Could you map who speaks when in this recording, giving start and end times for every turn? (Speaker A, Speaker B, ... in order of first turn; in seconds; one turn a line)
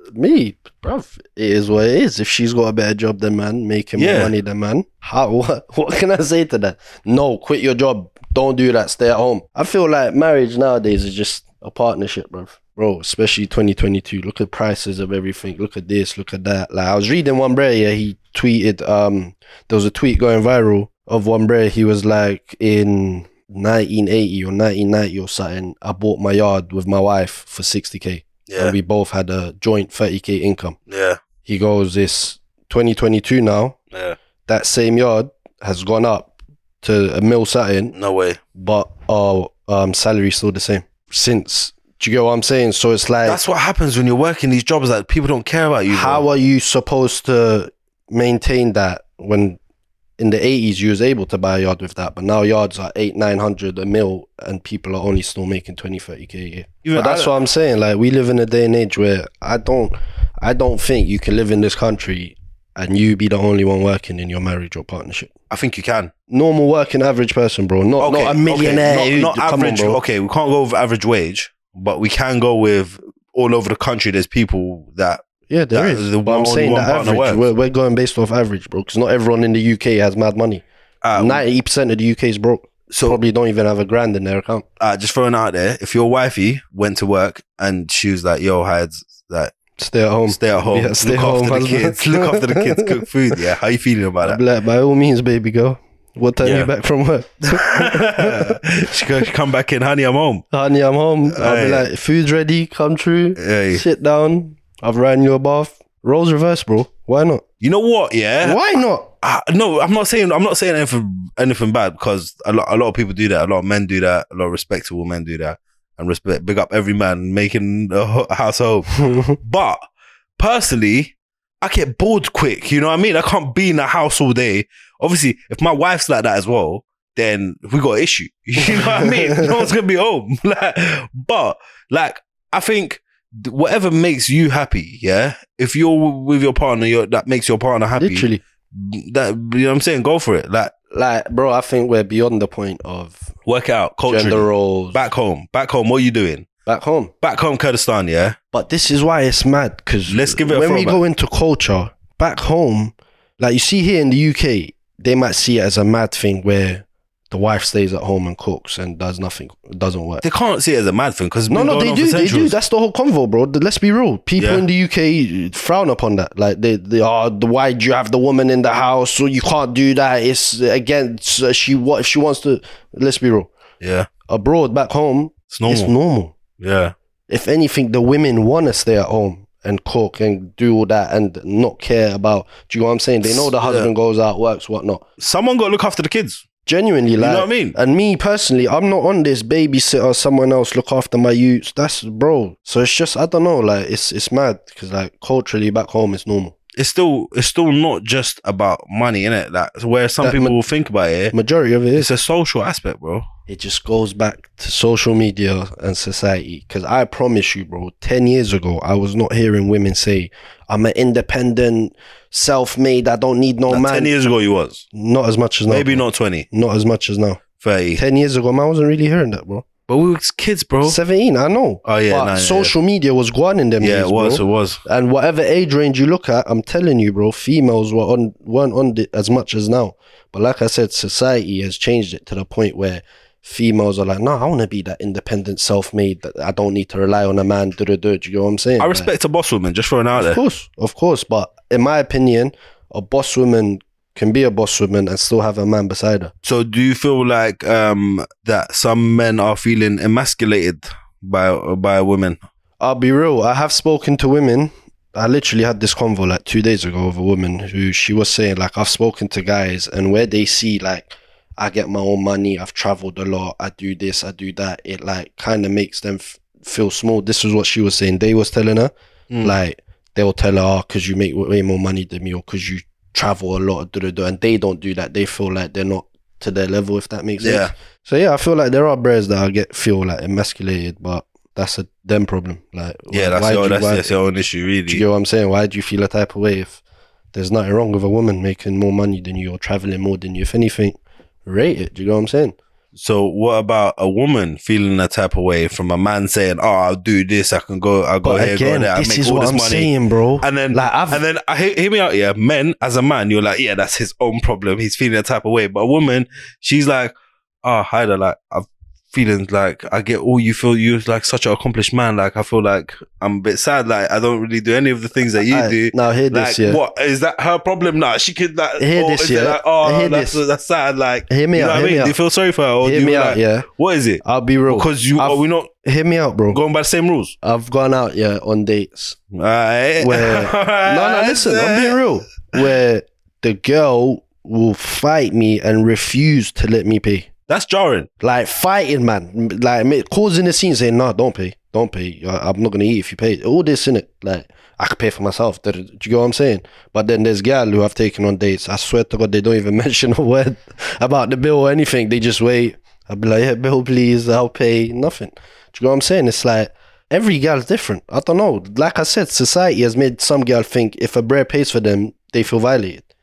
Speaker A: 0.1-30.8
Speaker B: 4.0-4.3
Speaker B: 28.5-28.8
Speaker B: 30.9-31.2
Speaker A: 31.4-33.8
Speaker A: 34.5-37.9
Speaker B: 37.9-38.4
Speaker A: 38.5-43.4
Speaker B: 43.2-46.2
Speaker A: 45.9-49.6
Speaker A: 50.2-65.3
Speaker B: 56.8-57.3
Speaker B: 65.5-66.1
Speaker A: 66.3-70.0
Speaker B: 68.0-77.4
Speaker A: 75.5-80.6
Speaker B: 81.0-81.4
Speaker A: 81.1-84.7
Speaker B: 82.9-83.2
Speaker B: 84.8-89.5
Speaker A: 89.8-93.0
Speaker B: 90.3-94.4
Speaker A: 94.2-98.6
Speaker B: 96.4-96.7
Speaker B: 97.5-100.4
Speaker A: 100.5-107.4
Speaker B: 101.3-101.8
Speaker B: 103.4-103.8
Speaker B: 107.6-108.6
Speaker A: 108.4-109.1
Speaker B: 109.2-119.8
Speaker B: 120.4-140.7
Speaker A: 129.0-129.5
Speaker A: 138.0-138.4
Speaker A: 140.9-143.3
Speaker B: 143.5-146.5
Speaker A: 144.1-145.0
Speaker A: 146.7-147.1
Speaker B: 147.2-148.4
Speaker A: 148.5-160.2
Speaker B: 150.1-151.0
Speaker B: 160.2-162.6
Speaker A: 161.5-173.5
Speaker B: 164.4-164.6
Speaker B: 173.8-174.1
Speaker A: 174.3-176.3
Speaker B: 175.5-175.9
Speaker B: 176.6-176.9
Speaker A: 177.3-185.0
Speaker B: 183.2-183.9
Speaker B: 185.2-186.4
Speaker A: 186.7-196.6
Speaker B: 187.2-187.8
Speaker B: 196.8-201.3
Speaker A: 200.2-200.6
Speaker A: 201.3-202.1
Speaker B: 202.0-203.3
Speaker A: 203.5-214.1
Speaker B: 213.7-214.9
Speaker A: 214.9-217.4
Speaker B: 215.7-216.5
Speaker B: 217.6-218.0
Speaker A: 218.0-219.7
Speaker B: 219.9-221.0
Speaker A: 220.8-239.1
Speaker B: 221.8-222.7
Speaker B: 223.8-224.8
Speaker B: 238.8-240.4
Speaker A: 240.2-246.3
Speaker B: 246.4-252.4
Speaker A: 252.8-284.1
Speaker B: 277.4-277.7
Speaker B: 283.1-285.0
Speaker A: 284.9-286.8
Speaker A: 287.3-292.6
Speaker B: 292.9-325.7
Speaker A: 298.2-301.2
Speaker A: 315.4-316.8
Speaker A: 318.8-320.4
Speaker A: 321.3-322.1
Speaker A: 322.8-323.7
Speaker A: 324.2-326.6
Speaker B: 326.5-327.3
Speaker A: 327.4-329.2
Speaker B: 329.3-332.0
Speaker A: 330.0-337.3
Speaker B: 337.5-338.1
Speaker A: 338.2-363.0